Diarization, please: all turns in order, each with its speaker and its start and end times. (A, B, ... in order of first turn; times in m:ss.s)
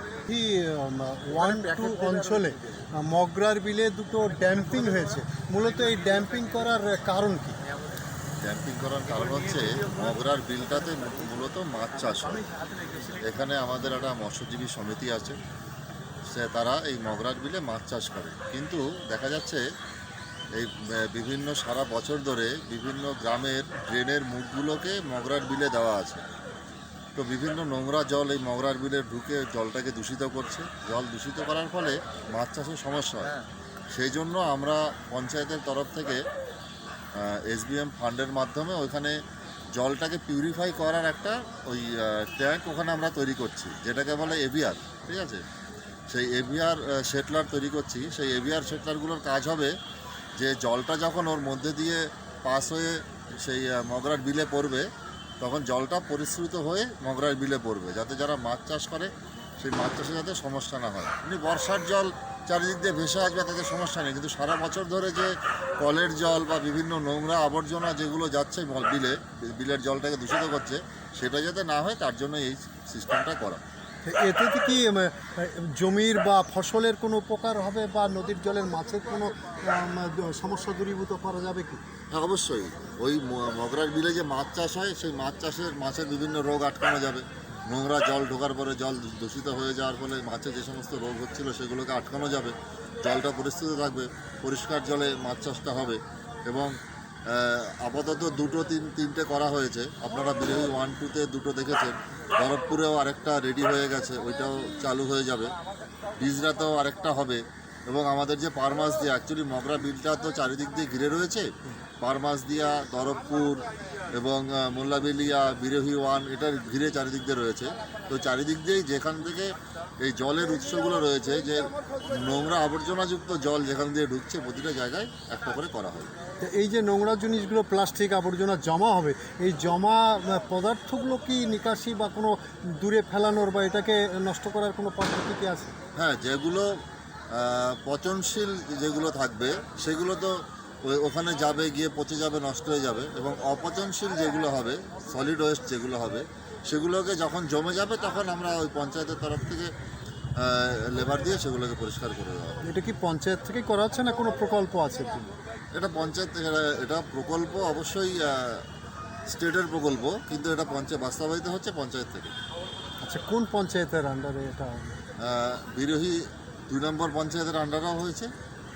0:00.2-0:07.6 A
0:08.4-0:12.4 B
0:13.2-0:15.4 B
0:16.3-0:19.6 B
0:20.5-0:26.2 B
0:27.1-0:36.2 B
0:37.1-0:39.2 B
0:39.7-0:45.4 B
0:46.1-0:49.7 B
0:50.4-0:54.9 B
0:55.4-1:13.6 B
1:14.0-1:21.8 A
1:22.1-1:45.5 B
1:46.1-2:06.1 B
2:06.4-2:15.7 A
2:16.0-2:16.7 B
2:17.3-2:29.7 B
2:30.4-2:32.6 B
2:32.6-2:35.3 A
2:35.7-2:38.6 B
2:39.3-2:42.3 B
2:43.0-2:45.0 A
2:45.2-2:48.3 B